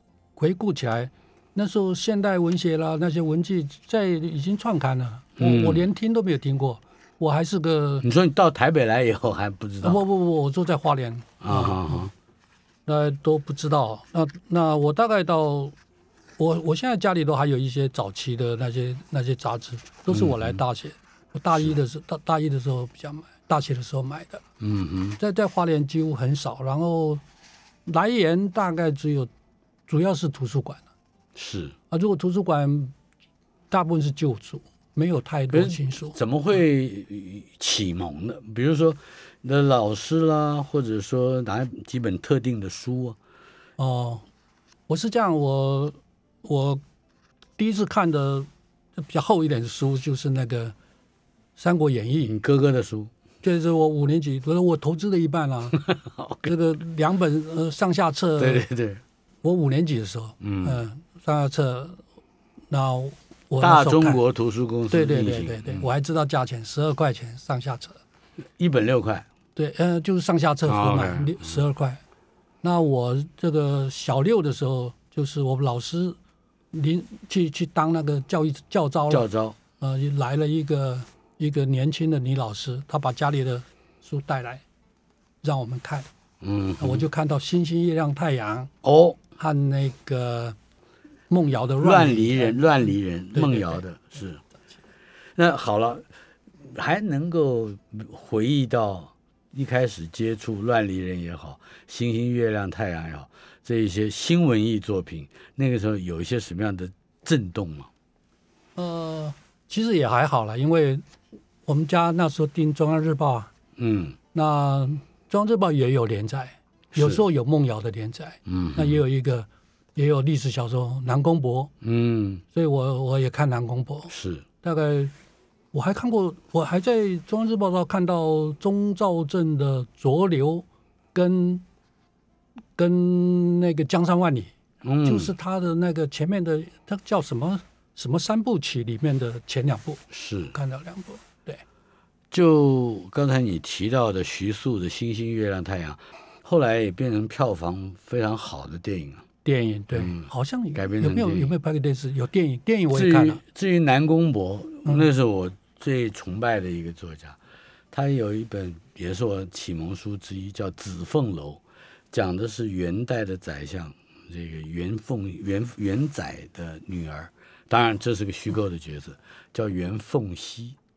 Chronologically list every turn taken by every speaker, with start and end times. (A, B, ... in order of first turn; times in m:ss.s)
0:00.4-0:08.0 A
0:05.4-0:05.8 B
0:08.0-0:10.0 B
0:09.8-0:12.1 A
0:11.4-0:12.1 B
0:12.9-0:15.8 A
0:16.4-0:24.4 A
0:20.1-0:20.6 B
0:24.6-0:25.2 B
0:25.2-0:27.2 A
0:27.9-0:29.3 A
0:29.9-0:30.8 A
0:31.4-0:31.8 B
0:31.9-0:32.9 A
0:33.7-0:36.2 A
0:35.5-0:43.2 B
0:43.8-0:44.2 A
0:44.9-0:46.8 A
0:47.6-0:48.5 A
0:49.0-0:50.8 A
0:51.6-0:52.4 A
0:52.3-0:53.1 B
0:53.4-0:55.8 A
0:55.8-0:56.6 B
0:56.4-0:58.7 A
0:58.4-0:59.0 B
0:59.4-1:02.0 A
1:00.4-1:00.8 B
1:02.7-1:04.2 A
1:03.6-1:05.9 B
1:04.9-1:08.0 A
1:08.6-1:09.3 B
1:09.6-1:12.0 A
1:10.7-1:11.6 B
1:12.6-1:16.2 A
1:16.7-1:19.3 A
1:19.1-1:19.6 B
1:19.8-1:24.6 A
1:25.4-1:26.1 A
1:26.4-1:27.0 B
1:26.8-1:28.7 A
1:28.8-1:29.2 B
1:29.4-1:30.6 A
1:31.3-1:32.6 A
1:31.8-1:34.4 B
1:33.3-1:33.8 A
1:35.4-1:36.1 B
1:36.6-1:47.9 B
1:48.8-1:51.0 A
1:51.7-1:53.5 A
1:53.8-1:54.2 B
1:54.3-2:01.7 A
1:56.9-1:57.2 B
1:58.5-1:59.0 B
2:01.8-2:02.4 B
2:02.5-2:05.1 A
2:04.1-2:04.4 B
2:05.7-2:11.6 A
2:12.8-2:14.5 A
2:14.8-2:15.3 B
2:15.0-2:21.6 A
2:20.1-2:20.6 B
2:22.3-2:29.2 B
2:29.4-2:33.4 A
2:29.9-2:31.6 B
2:32.9-2:37.4 B
2:37.9-2:50.8 B